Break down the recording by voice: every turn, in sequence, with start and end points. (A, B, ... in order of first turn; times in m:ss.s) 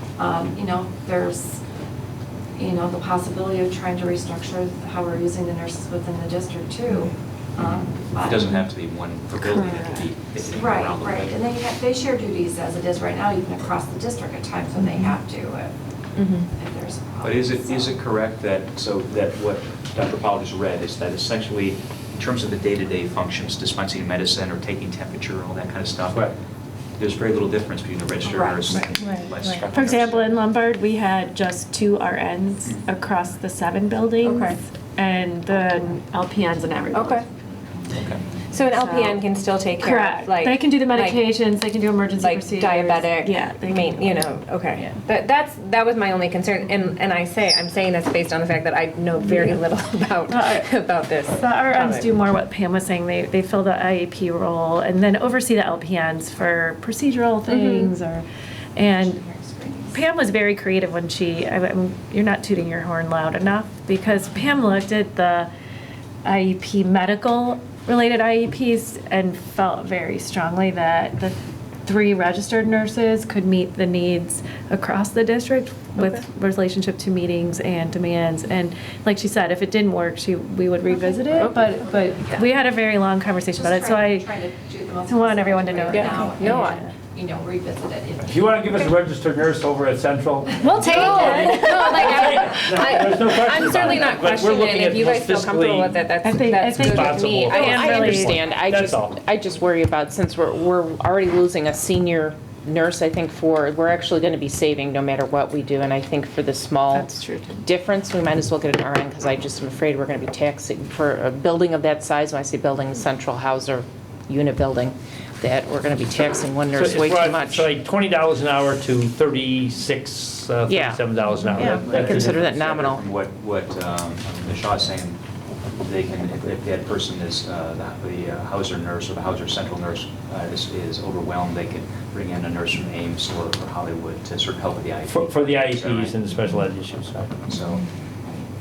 0:00.2-0:01.6 A
0:02.6-0:08.5 A
0:07.6-0:11.4 B
0:09.4-0:10.1 C
0:10.5-0:15.7 A
0:16.5-0:18.0 A
0:17.2-0:26.2 B
0:27.0-0:30.4 B
0:28.2-0:28.8 A
0:28.7-0:37.2 C
0:34.2-0:34.6 D
0:36.9-0:37.2 D
0:37.9-0:38.2 B
0:38.5-0:41.3 D
0:38.6-0:39.2 C
0:39.8-0:44.2 C
0:42.1-0:52.1 D
0:49.3-0:49.6 C
0:50.3-0:50.7 C
0:51.4-0:59.2 C
0:57.5-0:57.9 D
0:58.9-1:00.0 A
0:59.9-1:05.5 C
1:06.2-1:24.4 C
1:21.4-1:21.8 D
1:23.4-1:28.8 A
1:25.1-1:26.9 C
1:25.9-1:26.8 D
1:28.2-1:36.0 E
1:30.6-1:32.5 C
1:30.8-1:32.4 A
1:30.8-1:38.4 D
1:36.2-1:38.3 C
1:36.6-1:39.1 E
1:37.5-1:57.7 F
1:46.9-1:47.6 C
1:56.8-2:02.4 E
2:00.7-2:03.0 F
2:01.5-2:05.2 B
2:05.7-2:16.2 B
2:15.1-2:17.4 E
2:17.5-2:17.8 B